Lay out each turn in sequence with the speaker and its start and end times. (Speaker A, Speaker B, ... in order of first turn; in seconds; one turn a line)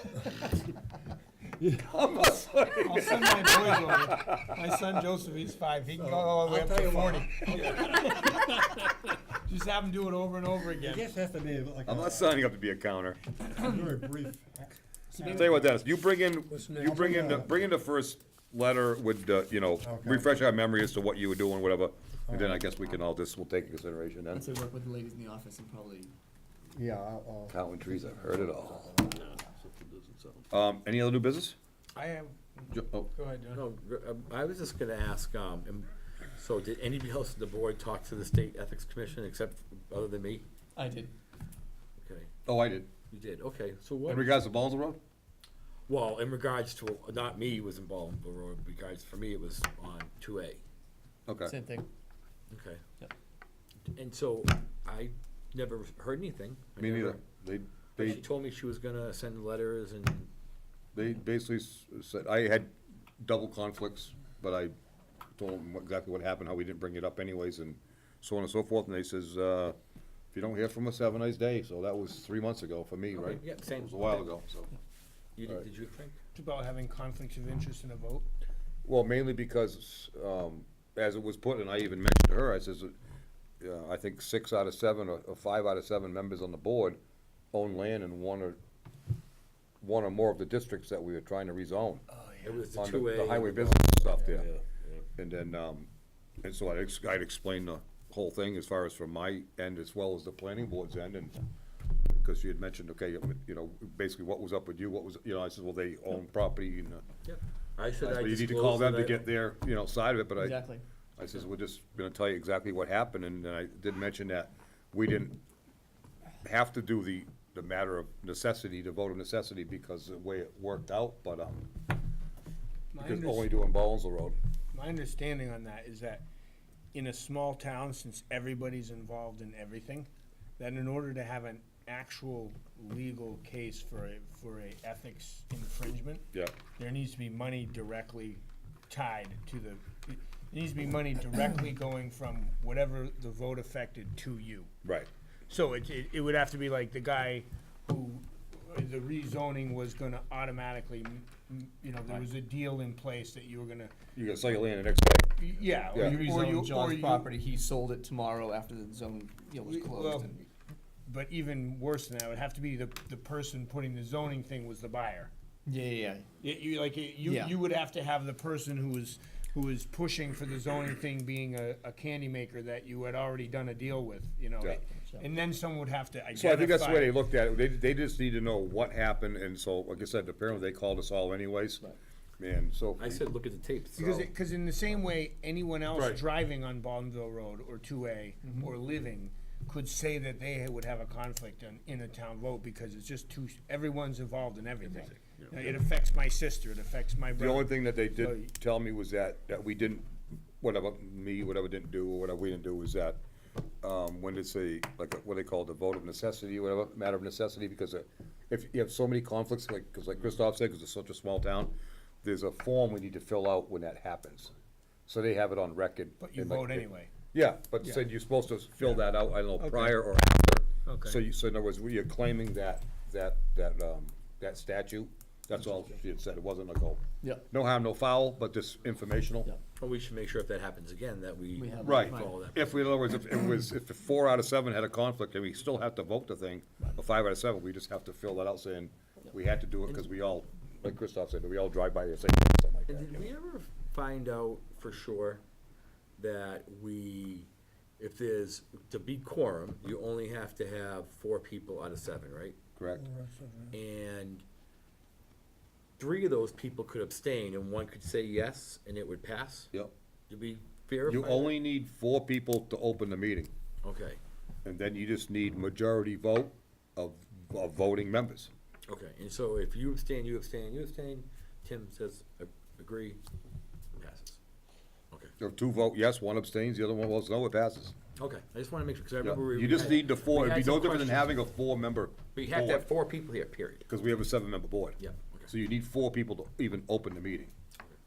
Speaker A: 1.6-1.8
Speaker B: 1.7-4.6
Speaker C: 2.8-11.1
Speaker A: 5.9-8.4
Speaker A: 10.8-12.4
Speaker B: 11.8-13.2
Speaker A: 13.5-15.6
Speaker D: 15.2-15.7
Speaker B: 15.2-24.4
Speaker A: 16.5-17.5
Speaker A: 19.8-20.4
Speaker A: 22.3-22.6
Speaker D: 24.3-26.1
Speaker A: 26.7-27.6
Speaker B: 27.5-29.0
Speaker A: 28.3-30.4
Speaker B: 30.5-31.6
Speaker C: 31.9-33.6
Speaker E: 33.5-40.5
Speaker D: 40.8-41.1
Speaker E: 42.0-42.3
Speaker B: 42.5-42.9
Speaker E: 43.1-44.3
Speaker B: 44.1-45.0
Speaker E: 45.9-50.6
Speaker B: 51.3-51.5
Speaker D: 51.5-51.9
Speaker E: 52.5-52.8
Speaker E: 53.9-57.2
Speaker B: 56.8-58.2
Speaker E: 58.0-60.3
Speaker B: 60.9-64.7
Speaker B: 65.3-69.8
Speaker B: 70.3-74.7
Speaker E: 73.1-74.3
Speaker E: 75.4-76.2
Speaker C: 76.3-78.3
Speaker B: 78.8-82.9
Speaker B: 83.6-87.0
Speaker B: 87.5-88.6
Speaker B: 89.8-92.0
Speaker C: 92.1-92.6
Speaker E: 92.4-95.0
Speaker B: 92.7-94.5
Speaker B: 95.2-95.9
Speaker B: 96.4-101.4
Speaker B: 102.1-107.0
Speaker E: 107.2-109.2
Speaker B: 108.0-110.6
Speaker D: 110.4-110.8
Speaker B: 111.2-115.4
Speaker B: 116.4-121.7
Speaker C: 122.9-123.5
Speaker B: 123.0-124.3
Speaker C: 124.7-126.2
Speaker C: 126.9-144.7
Speaker B: 144.8-145.1
Speaker C: 145.5-153.9
Speaker B: 154.1-156.2
Speaker C: 155.4-157.3
Speaker D: 155.9-160.4
Speaker C: 159.6-160.4
Speaker C: 161.1-165.3
Speaker D: 165.7-166.3
Speaker C: 166.4-177.1
Speaker D: 167.2-167.5
Speaker B: 176.3-181.9
Speaker B: 182.4-183.3
Speaker E: 183.0-184.3
Speaker C: 184.0-198.5
Speaker E: 185.9-186.2
Speaker B: 197.3-200.1
Speaker B: 200.6-203.2
Speaker B: 203.8-214.5
Speaker B: 215.1-229.5
Speaker C: 216.2-217.1
Speaker C: 219.6-220.0
Speaker C: 220.8-221.2
Speaker E: 229.8-232.9
Speaker D: 231.6-232.3
Speaker B: 231.8-243.3
Speaker E: 242.9-245.4
Speaker E: 246.2-252.6
Speaker B: 252.8-253.1
Speaker A: 253.1-253.7
Speaker E: 253.7-254.4
Speaker E: 256.0-259.7
Speaker E: 260.3-261.5
Speaker B: 261.0-263.5
Speaker E: 263.8-264.2
Speaker B: 264.6-268.5
Speaker E: 268.9-273.2
Speaker E: 273.9-274.4
Speaker B: 275.4-277.9
Speaker E: 278.1-281.4
Speaker B: 279.2-282.9
Speaker E: 282.3-283.9
Speaker B: 283.9-287.5
Speaker E: 285.0-285.5